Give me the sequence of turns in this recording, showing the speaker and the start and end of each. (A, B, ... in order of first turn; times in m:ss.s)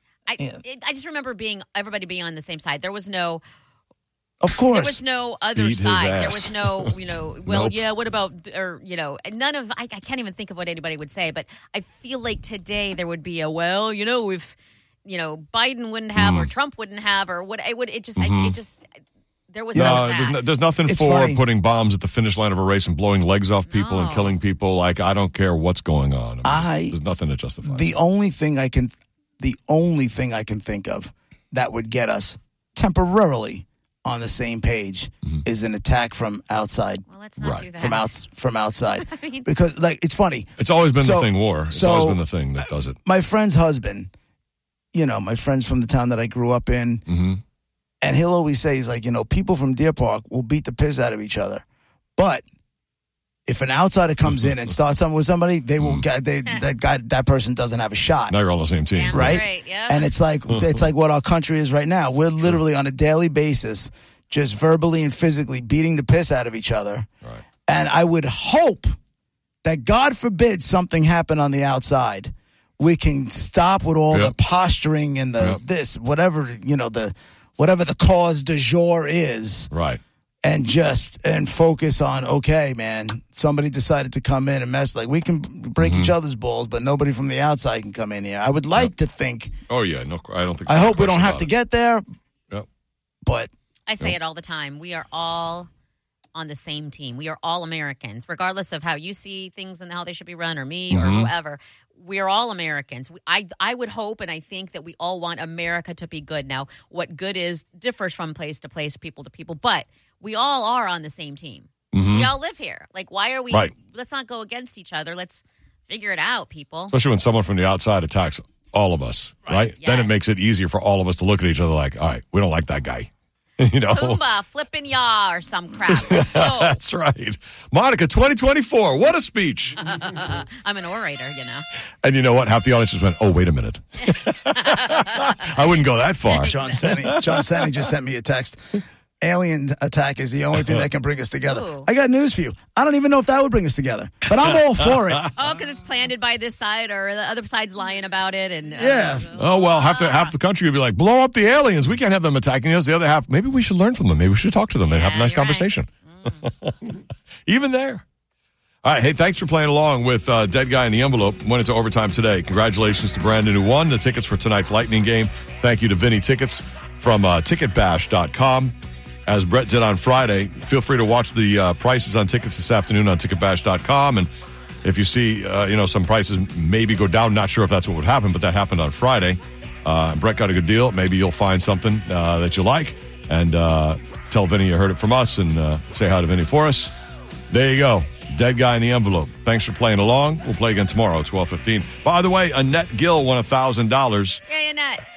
0:00.3-0:03.4 A
0:04.4-0:05.0 B
0:04.7-0:14.6 A
0:05.6-0:06.9 C
0:07.5-0:07.8 C
0:15.1-0:18.8 A
0:16.2-0:16.5 C
0:18.2-0:18.6 C
0:19.5-0:20.4 A
0:19.7-0:20.1 B
0:19.7-0:28.0 C
0:20.9-0:21.4 B
0:23.7-0:24.4 A
0:26.4-0:27.0 B
0:27.6-0:37.0 B
0:37.1-0:38.2 A
0:37.4-0:37.7 C
0:37.8-0:42.2 B
0:39.0-0:39.5 A
0:40.6-0:43.0 C
0:43.0-0:44.1 B
0:44.9-0:47.0 B
0:47.1-0:47.4 C
0:48.0-0:51.6 B
0:52.2-0:52.4 B
0:53.5-0:58.3 B
0:55.8-0:56.0 C
0:58.3-0:59.4 C
0:58.9-1:00.1 A
0:59.1-1:07.1 B
1:07.7-1:08.9 B
1:09.6-1:19.7 B
1:19.7-1:20.0 C
1:20.4-1:29.5 B
1:25.8-1:26.2 C
1:29.7-1:31.5 C
1:30.7-1:32.0 B
1:33.2-1:33.5 B
1:33.9-1:35.7 A
1:36.4-1:57.0 A
1:40.9-1:41.3 C
1:51.9-1:52.3 C
1:56.9-2:03.1 C
1:59.8-2:00.1 A
2:03.6-2:04.2 C
2:03.9-2:06.8 A
2:05.9-2:09.8 C
2:09.8-2:11.6 A
2:12.0-2:17.6 C
2:14.6-2:15.3 A
2:16.2-2:16.9 A
2:16.4-2:25.3 B
2:21.5-2:21.9 A
2:25.4-2:30.3 A
2:28.8-2:29.3 B
2:29.4-2:38.0 C
2:34.8-2:36.5 A
2:38.8-2:48.7 C
2:49.3-2:54.3 C
2:54.8-3:06.9 C
3:07.5-3:14.4 C
3:14.5-3:15.0 A